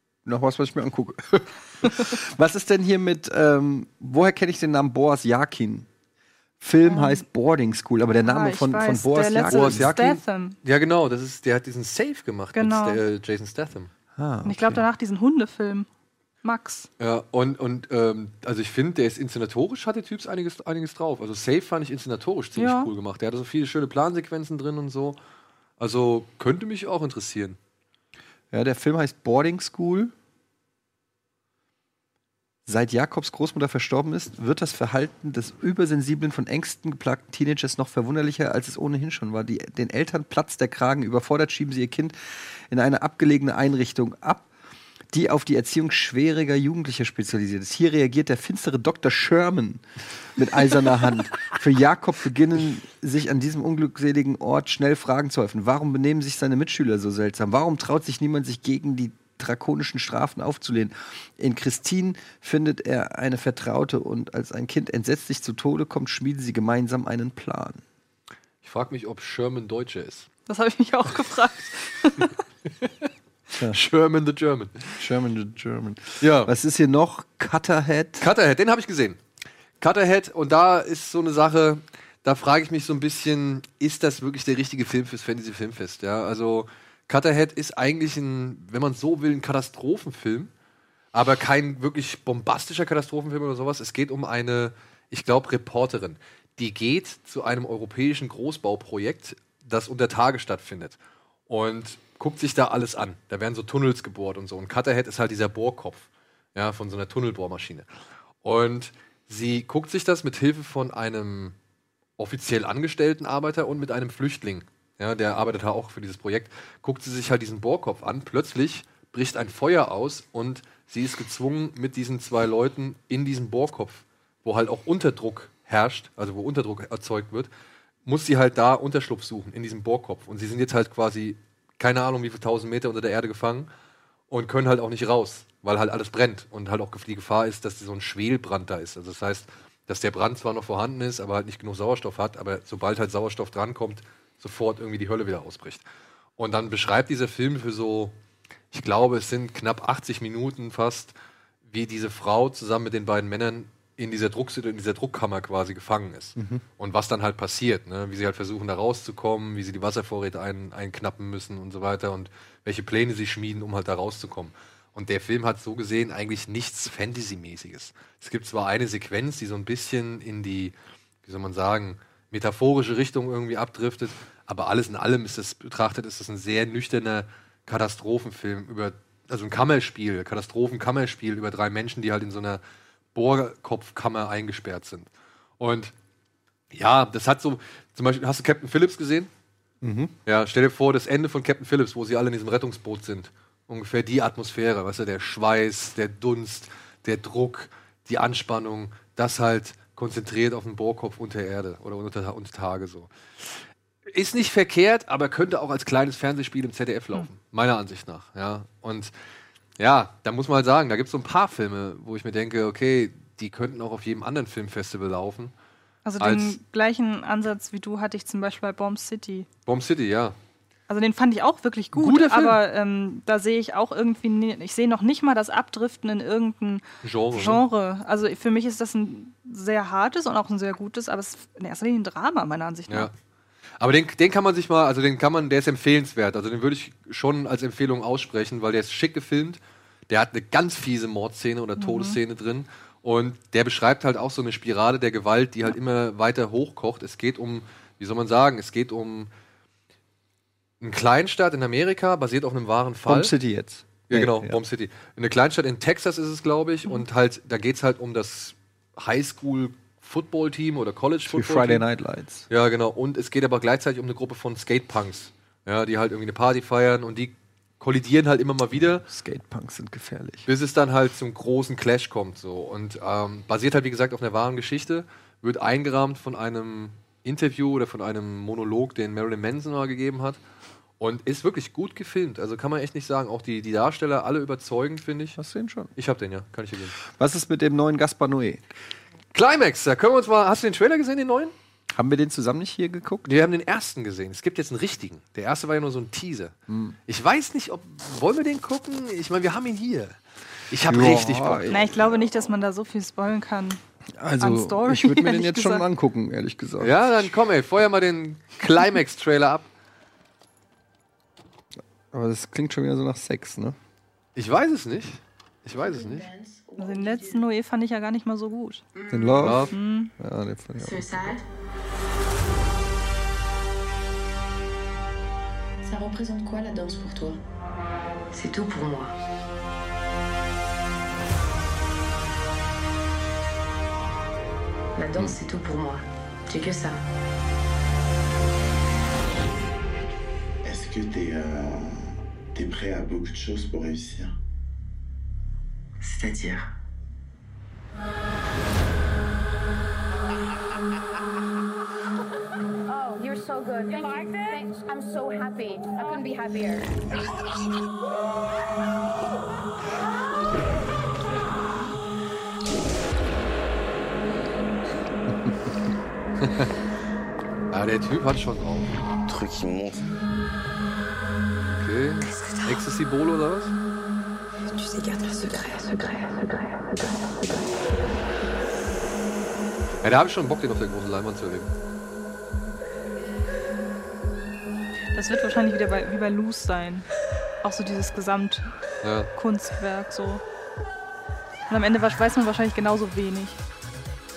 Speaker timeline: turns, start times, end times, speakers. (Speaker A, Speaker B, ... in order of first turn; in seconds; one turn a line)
Speaker A: 0.2-5.9
Speaker A: 6.6-9.9
Speaker B: 6.8-7.2
Speaker B: 8.2-10.6
Speaker C: 9.5-13.9
Speaker B: 12.5-13.0
Speaker A: 14.2-14.9
Speaker B: 14.4-15.9
Speaker B: 16.4-16.9
Speaker C: 17.0-25.2
Speaker B: 22.6-22.9
Speaker C: 25.8-27.6
Speaker A: 28.5-30.1
Speaker A: 32.6-42.1
Speaker A: 42.7-44.5
Speaker A: 45.1-49.8
Speaker A: 50.4-67.8
Speaker C: 68.6-70.3
Speaker B: 70.5-72.3
Speaker C: 72.8-73.1
Speaker C: 73.7-75.0
Speaker A: 75.0-78.3
Speaker C: 76.2-76.5
Speaker C: 78.2-79.2
Speaker C: 79.8-90.5
Speaker C: 91.1-101.0
Speaker C: 101.5-107.9
Speaker C: 108.4-111.5
Speaker C: 112.2-127.5
Speaker C: 128.1-133.7
Speaker C: 134.3-145.8
Speaker C: 146.4-148.1
Speaker C: 148.7-151.1
Speaker C: 151.7-182.6
Speaker A: 156.3-156.6
Speaker C: 183.1-185.1
Speaker C: 185.6-185.9
Speaker C: 186.7-189.3
Speaker A: 189.8-190.1
Speaker C: 190.2-209.1
Speaker C: 209.8-215.5
Speaker B: 216.0-219.5
Speaker C: 216.2-216.6
Speaker C: 219.7-220.3
Speaker B: 220.9-233.1
Speaker C: 221.9-222.6
Speaker C: 227.0-227.6
Speaker C: 233.8-249.3
Speaker B: 241.8-242.2
Speaker C: 250.8-253.3
Speaker A: 253.1-254.6
Speaker C: 254.1-261.8
Speaker A: 261.3-262.5
Speaker C: 262.5-269.1
Speaker A: 269.0-270.5
Speaker C: 270.5-280.4
Speaker C: 281.0-285.4
Speaker A: 285.4-285.9
Speaker C: 285.9-287.0
Speaker A: 287.0-288.6
Speaker C: 289.3-291.5
Speaker A: 291.9-293.3
Speaker C: 293.2-296.5
Speaker A: 296.7-297.0
Speaker C: 297.1-300.2
Speaker C: 300.7-301.6
Speaker A: 300.8-302.2
Speaker B: 301.7-303.8
Speaker A: 304.2-307.2
Speaker B: 304.4-305.8
Speaker C: 306.8-309.7
Speaker A: 312.1-313.8
Speaker C: 314.4-316.3
Speaker D: 315.8-317.5
Speaker B: 316.8-318.9
Speaker D: 318.9-319.6
Speaker A: 319.1-321.4
Speaker C: 319.4-319.7
Speaker B: 319.7-320.1
Speaker D: 320.8-321.4
Speaker D: 325.8-327.4
Speaker D: 328.3-329.1
Speaker D: 334.9-337.0
Speaker E: 340.6-344.4
Speaker D: 346.0-346.7
Speaker F: 352.9-356.9
Speaker A: 365.3-365.7
Speaker C: 366.4-366.7
Speaker C: 367.7-369.0
Speaker E: 369.3-370.1
Speaker C: 371.8-373.7
Speaker D: 372.2-372.8
Speaker D: 374.6-378.1
Speaker C: 380.0-381.7
Speaker B: 385.1-387.1
Speaker B: 387.6-388.7
Speaker C: 389.0-389.3
Speaker B: 389.3-390.4
Speaker B: 391.7-393.6